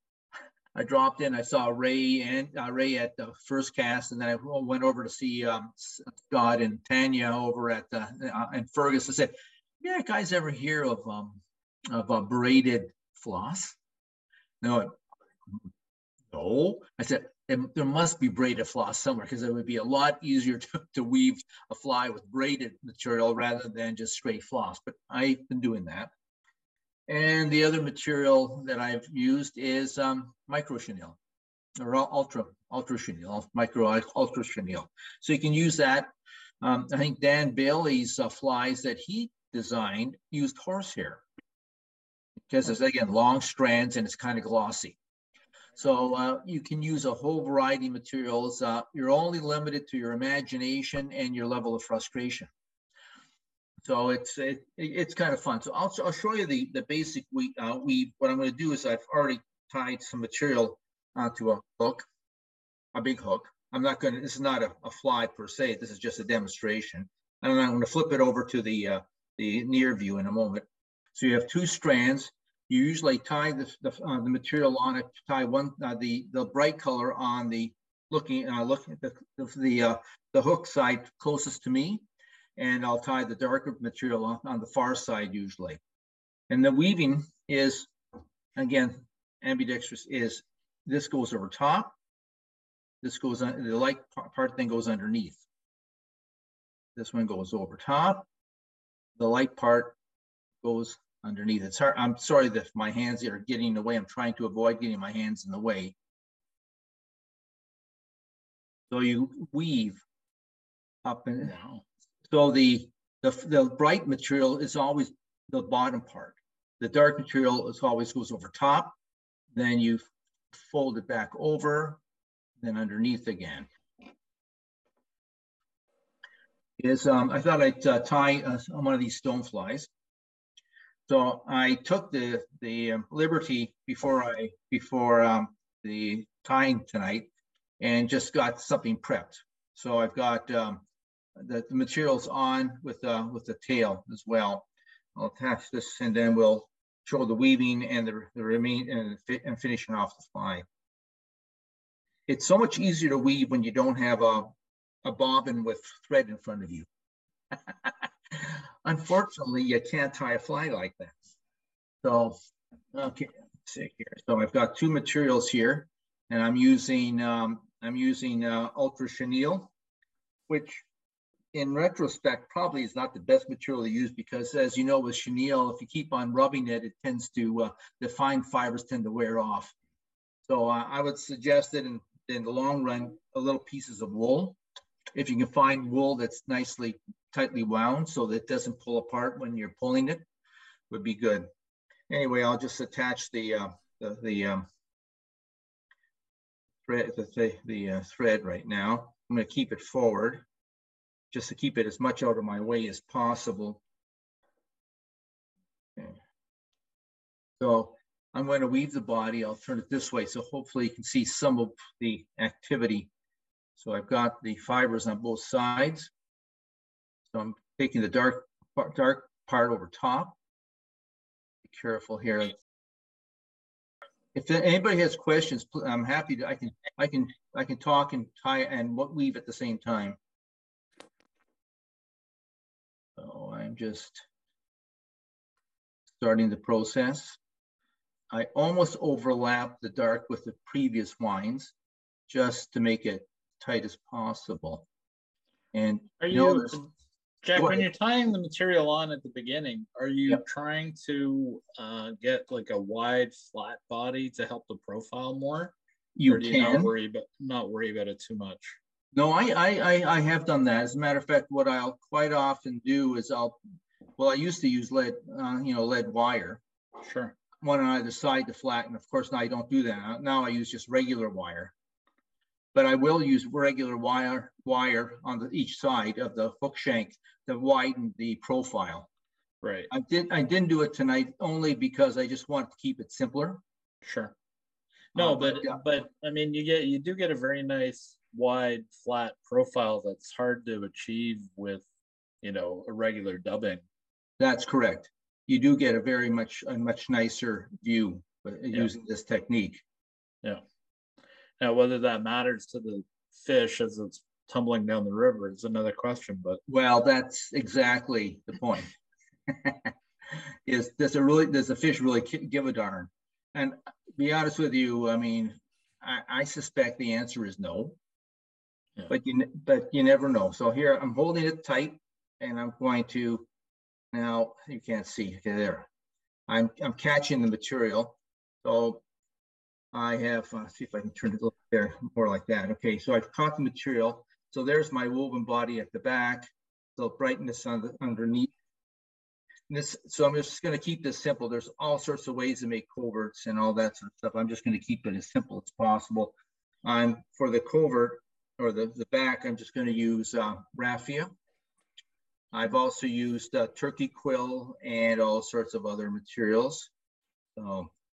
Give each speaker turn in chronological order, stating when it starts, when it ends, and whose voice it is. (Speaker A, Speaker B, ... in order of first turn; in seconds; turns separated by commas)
Speaker A: 0.7-13.8, Speaker A: 14.6-15.0, Speaker A: 16.3-26.1, Speaker A: 27.1-31.2, Speaker A: 31.8-36.1, Speaker A: 36.6-41.2, Speaker A: 42.5-45.0, Speaker A: 45.8-52.5, Speaker A: 53.8-62.1, Speaker A: 62.9-82.0, Speaker A: 82.6-85.8, Speaker A: 86.5-87.9, Speaker A: 88.5-91.9, Speaker A: 93.0-95.4, Speaker A: 97.0-98.2, Speaker A: 99.2-100.0, Speaker A: 100.6-105.9, Speaker A: 108.9-110.0, Speaker A: 111.0-111.5, Speaker B: 111.4-111.8, Speaker A: 112.3-118.9, Speaker A: 119.5-122.0, Speaker A: 122.6-123.7, Speaker A: 126.8-129.9, Speaker A: 131.1-140.8, Speaker A: 141.4-150.6, Speaker A: 152.3-154.5, Speaker A: 155.0-156.8, Speaker A: 157.8-161.2, Speaker A: 162.0-162.3, Speaker A: 162.9-169.7, Speaker A: 170.5-170.8, Speaker A: 171.5-179.7, Speaker A: 180.4-184.6, Speaker A: 185.1-190.2, Speaker A: 190.9-191.5, Speaker A: 192.1-194.6, Speaker A: 196.8-200.4, Speaker A: 201.3-203.8, Speaker A: 207.6-213.1, Speaker A: 213.8-216.1, Speaker A: 217.3-220.3, Speaker A: 221.6-222.5, Speaker A: 224.3-230.2, Speaker A: 233.2-234.2, Speaker A: 236.2-237.4, Speaker A: 238.3-241.7, Speaker A: 242.3-244.8, Speaker A: 245.7-246.8, Speaker B: 246.2-246.9, Speaker B: 247.4-255.7, Speaker A: 247.6-247.8, Speaker A: 256.1-256.9, Speaker B: 256.3-258.8, Speaker A: 259.1-263.6, Speaker A: 264.2-266.6, Speaker B: 267.0-267.3, Speaker A: 267.6-271.7, Speaker A: 272.7-279.1, Speaker B: 279.6-279.9, Speaker A: 279.9-283.6, Speaker B: 284.0-284.3, Speaker B: 285.1-291.8, Speaker A: 285.1-285.8, Speaker B: 292.4-293.8, Speaker A: 294.4-299.8, Speaker B: 301.6-306.6, Speaker A: 306.7-308.9, Speaker A: 309.5-309.9, Speaker A: 310.6-318.0, Speaker A: 319.1-323.5, Speaker A: 324.1-325.9, Speaker A: 326.5-329.0, Speaker A: 329.9-338.5, Speaker A: 339.7-351.3, Speaker A: 352.5-356.9, Speaker A: 357.6-357.9